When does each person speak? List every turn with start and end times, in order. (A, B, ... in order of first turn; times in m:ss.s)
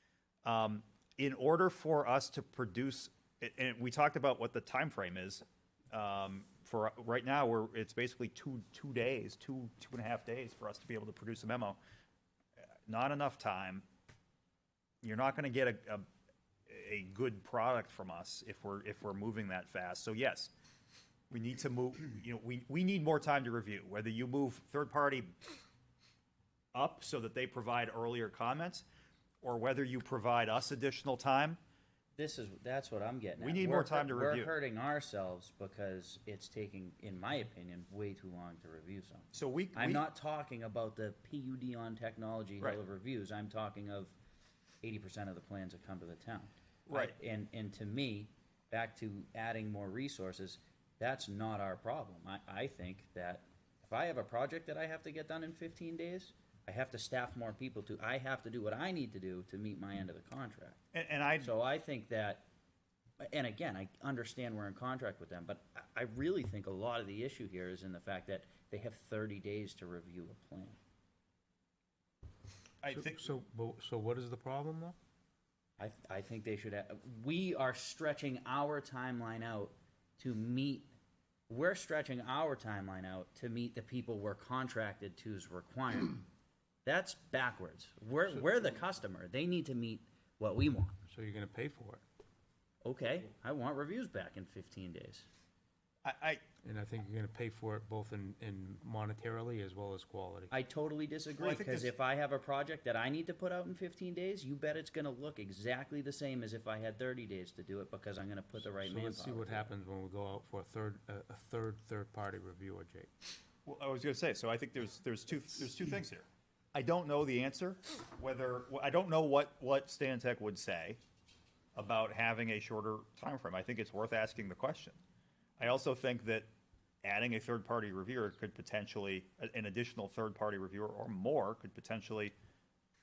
0:00.4-0:11.8 A
0:12.9-0:13.8 A
0:15.0-0:16.1 A
0:16.7-0:20.5 A
0:21.3-0:25.3 A
0:26.7-0:28.8 A
0:29.4-0:31.6 A
0:32.2-0:44.2 B
0:33.4-0:34.5 A
0:39.3-0:40.0 A
0:44.8-1:00.8 B
0:46.9-0:47.2 A
1:00.9-1:01.5 A
1:01.4-1:02.4 B
1:03.2-1:10.8 B
1:12.8-1:13.2 A
1:12.9-1:15.0 C
1:15.8-1:20.9 B
1:21.5-1:26.2 B
1:26.8-1:31.0 B
1:31.1-1:32.0 C
1:32.8-1:35.3 B
1:36.0-1:36.4 A
1:36.6-1:40.5 C
1:40.5-1:49.7 B
1:41.4-1:41.9 A
1:48.6-1:53.1 C
1:53.6-2:01.0 A
2:01.7-2:05.0 A
2:05.6-2:06.5 A
2:07.0-2:12.3 A